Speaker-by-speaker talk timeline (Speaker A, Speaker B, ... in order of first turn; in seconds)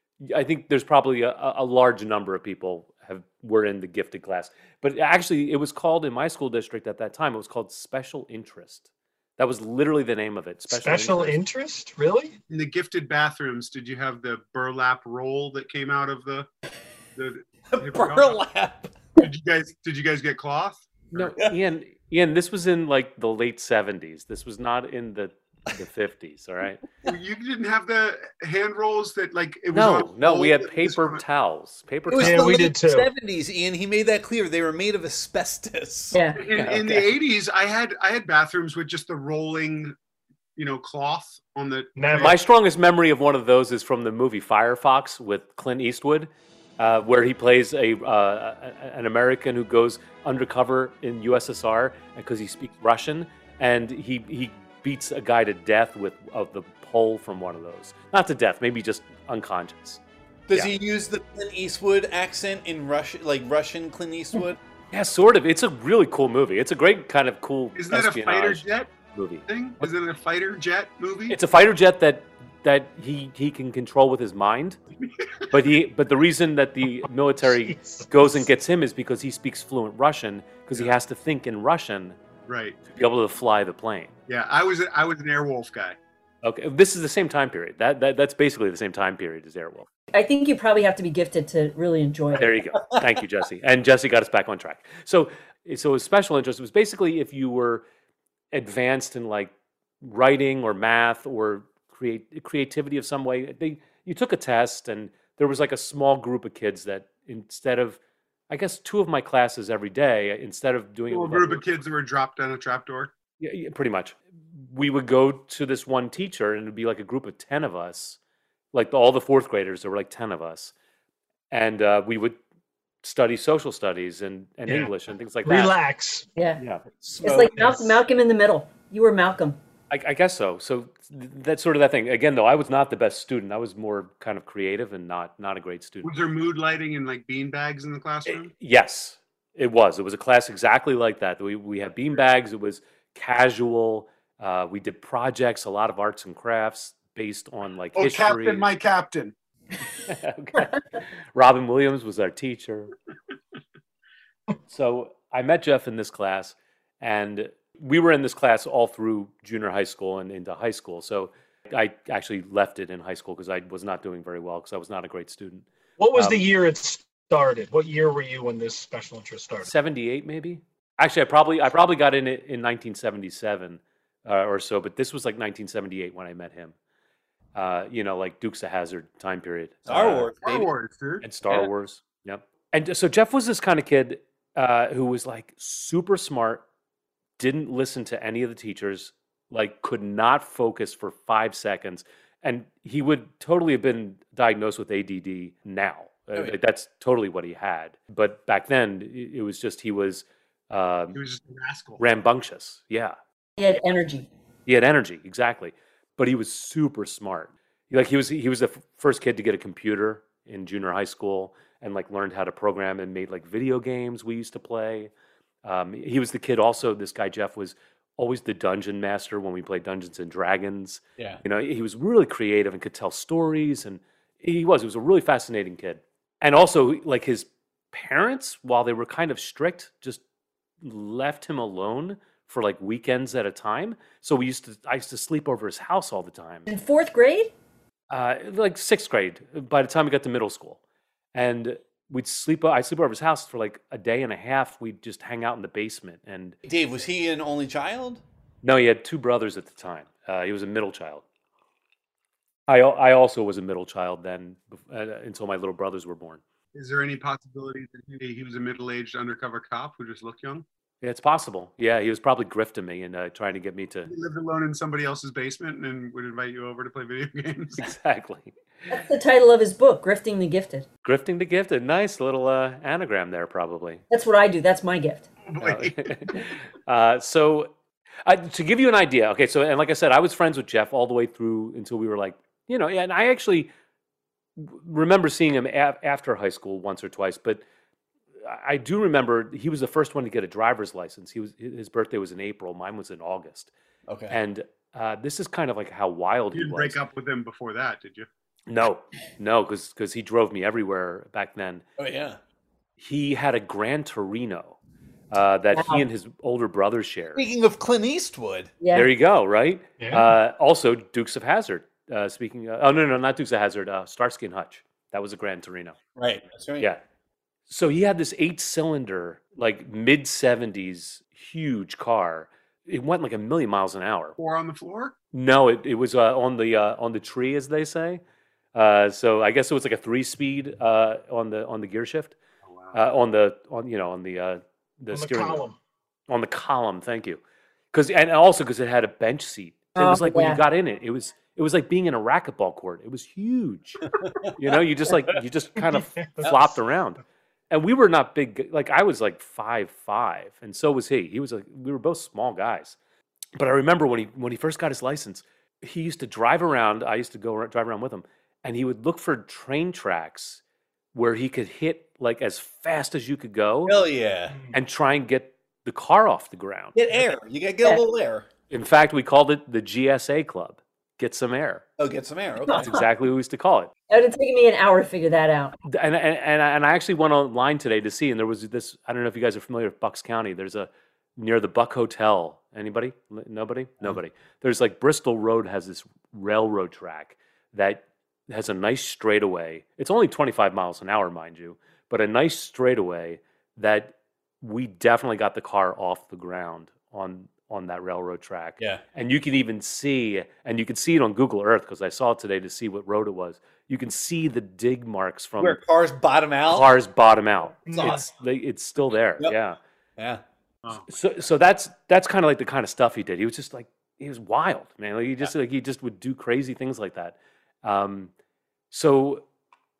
Speaker A: 0.2-11.4, 21.1-26.8, 29.7-32.5, 36.5-37.1, 42.1-60.0, 64.9-69.4, 71.3-74.8, 75.5-82.2, 82.9-84.1, 86.4-89.9, 92.3-97.8, 98.5-108.0, 108.5-111.7, 113.4-118.2, 118.7-120.7, 121.5-122.4, 123.0-125.7, 126.6-126.8, 129.9-136.1, 138.3-148.7, 150.1-150.8, 151.3-152.9, 154.7-166.4, 169.6-176.7, 177.5-180.3, 181.2-186.6, 187.4-201.2, 202.0-203.1, 204.7-215.1, 215.6-230.2, 230.8-236.7, 238.1-240.8, 241.3-246.6, 248.6-251.2, 252.7-256.4, 261.0-264.1, 267.8-268.5, 271.0-274.0, 275.6-277.7, 278.2-283.7, 284.6-287.6, 288.4-293.7, 294.3-297.0, 298.7-301.8, 303.0-304.8, 305.3-307.4, 308.9-315.9, 317.7-324.4, 325.3-328.2, 328.7-332.3, 332.9-335.6, 336.3-337.4, 337.9-352.9, 353.6-360.6, 361.1-364.0, 364.7-366.9, 368.7-371.8, 372.7-373.9, 375.8-405.8, 406.7-409.8, 411.1-418.3, 418.9-419.4
Speaker B: 10.7-12.4, 32.2-33.1, 42.0-42.3, 77.7-78.1, 124.7-124.9, 125.4-126.3, 166.0-169.7, 310.0-310.3, 335.1-335.8, 345.9-346.5, 407.9-408.2
Speaker C: 12.5-16.5, 17.1-18.4, 19.2-21.3, 27.0-31.2, 36.4-39.9, 40.5-42.4, 67.8-68.9, 69.5-71.4, 75.0-75.5, 82.5-82.8, 84.3-86.0, 111.1-113.1, 136.0-138.5, 147.9-149.3, 180.4-181.3, 201.1-202.0, 256.7-260.6, 264.1-267.9, 275.4-276.4, 296.5-298.3, 324.4-325.1, 332.7-333.0, 410.8-411.1
Speaker D: 17.7-18.9, 32.1-36.2, 60.5-64.6, 127.0-128.0, 179.8-180.7, 246.6-248.2, 294.1-294.4, 302.0-302.4, 307.3-308.7, 316.1-316.9, 344.2-344.5, 363.8-364.6, 366.9-368.5, 372.0-372.9, 405.6-406.9, 407.9-408.3, 410.2-410.4
Speaker E: 36.1-36.4, 90.1-92.5, 126.3-126.6, 127.2-129.6, 203.6-204.3, 236.7-237.5, 268.9-270.9, 274.1-275.3, 305.7-306.0, 308.8-309.1, 339.9-340.6, 372.7-373.0, 374.1-375.8